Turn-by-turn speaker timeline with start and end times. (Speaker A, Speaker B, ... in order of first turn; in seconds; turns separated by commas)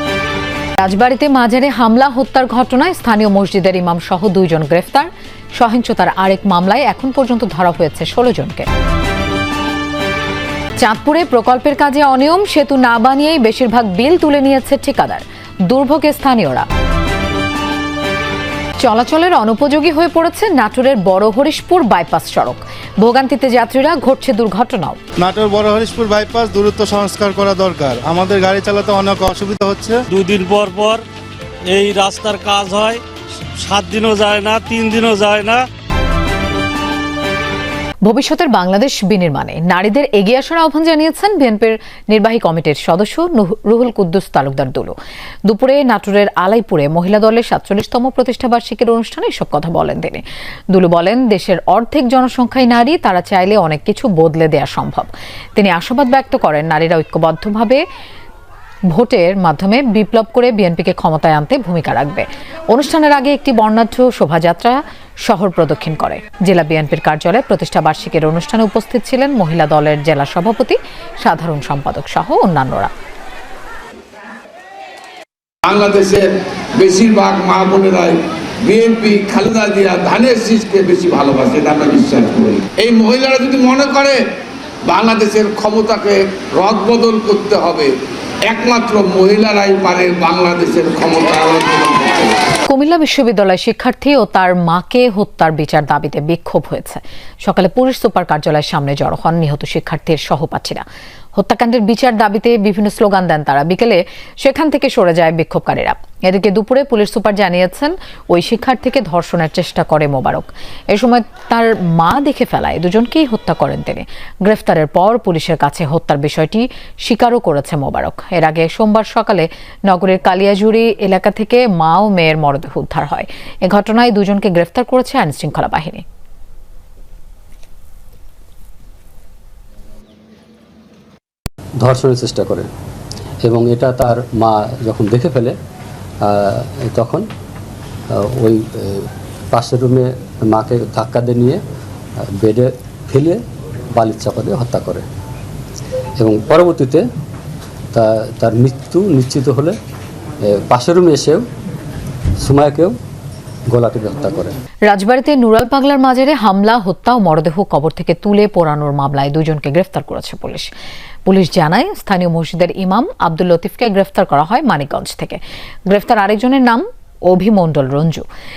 Speaker A: 0.8-8.7, Speaker A: 10.8-16.7, Speaker A: 18.8-25.0, Speaker B: 25.2-30.1, Speaker C: 30.1-31.0, Speaker C: 31.7-33.0, Speaker C: 33.6-35.6, Speaker A: 38.1-44.9, Speaker A: 45.5-57.8, Speaker A: 58.9-72.9, Speaker D: 75.7-84.2, Speaker D: 84.9-87.9, Speaker D: 88.5-92.3, Speaker A: 92.7-100.8, Speaker A: 101.4-126.0, Speaker E: 131.8-132.7, Speaker E: 133.4-135.6, Speaker E: 136.2-137.3, Speaker E: 138.1-141.6, Speaker E: 142.3-145.1, Speaker E: 146.2-147.1, Speaker E: 147.9-149.8, Speaker E: 150.5-151.5, Speaker E: 152.4-153.0, Speaker E: 153.7-154.5, Speaker A: 154.9-160.7, Speaker A: 161.3-168.2